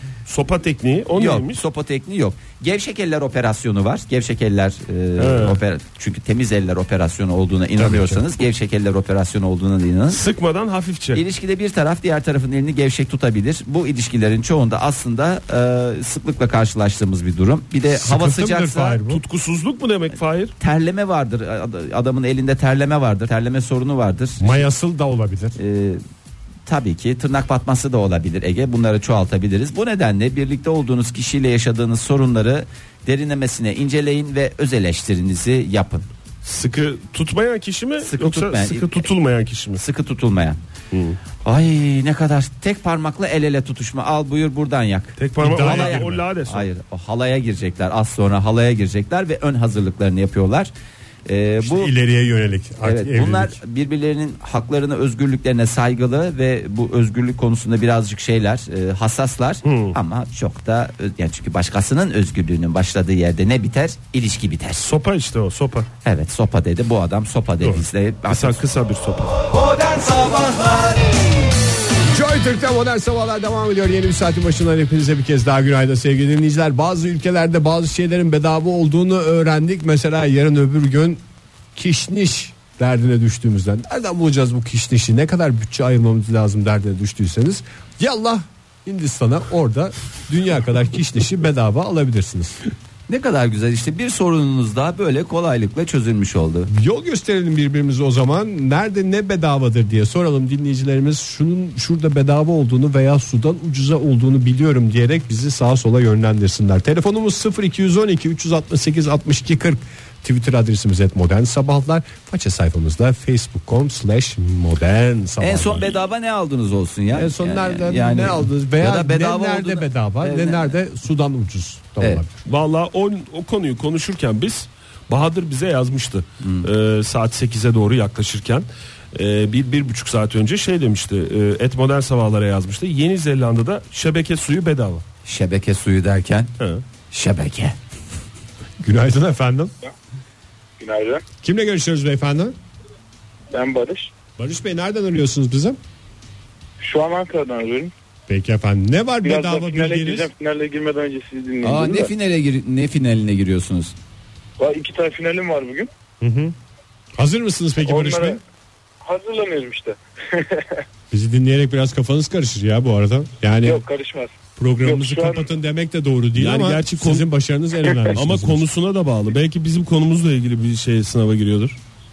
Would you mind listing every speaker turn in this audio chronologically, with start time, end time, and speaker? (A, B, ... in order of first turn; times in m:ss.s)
0:00.2-0:01.6 A
0:01.1-0:10.2 B
0:05.2-0:05.6 A
0:07.8-0:08.2 C
0:10.1-0:11.2 A
0:11.1-0:19.0 B
0:17.9-0:19.2 C
0:19.0-0:20.5 A
0:20.6-0:24.6 B
0:24.4-0:25.6 C
0:25.6-0:26.0 B
0:26.6-0:36.0 B
0:36.4-0:39.8 A
0:38.0-0:39.1 B
0:39.8-0:40.6 B
0:40.9-0:41.2 A
0:41.4-0:50.7 B
0:45.2-0:46.6 A
0:45.4-0:46.2 C
0:51.2-0:51.9 B
0:51.6-0:53.6 C
0:52.8-1:04.9 B
0:59.6-1:00.0 A
1:04.8-1:05.9 A
1:06.0-1:08.6 B
1:08.3-1:09.4 A
1:09.4-1:11.2 B
1:12.1-1:21.2 C
1:21.7-1:32.6 C
1:33.1-1:36.7 B
1:36.7-1:55.9 C
1:55.4-2:00.7 B
1:57.1-2:02.4 C
2:02.5-2:15.0 A
2:06.4-2:06.7 B
2:15.2-2:16.5 B
2:17.1-2:17.8 B
2:18.8-2:19.7 C
2:20.8-2:21.2 D
2:21.4-2:22.5 C
2:23.5-2:24.1 D
2:24.4-2:25.8 C
2:26.8-2:27.9 D
2:28.3-2:30.3 C
2:29.2-2:32.1 D
2:31.6-2:33.9 B
2:34.6-2:35.9 D
2:36.2-2:36.5 C
2:37.2-2:38.4 C
2:37.8-2:38.4 D
2:39.0-2:40.8 D
2:41.1-2:43.8 C
2:43.6-2:45.5 D
2:44.6-2:48.6 C
2:46.4-2:47.3 A
2:48.1-2:51.8 A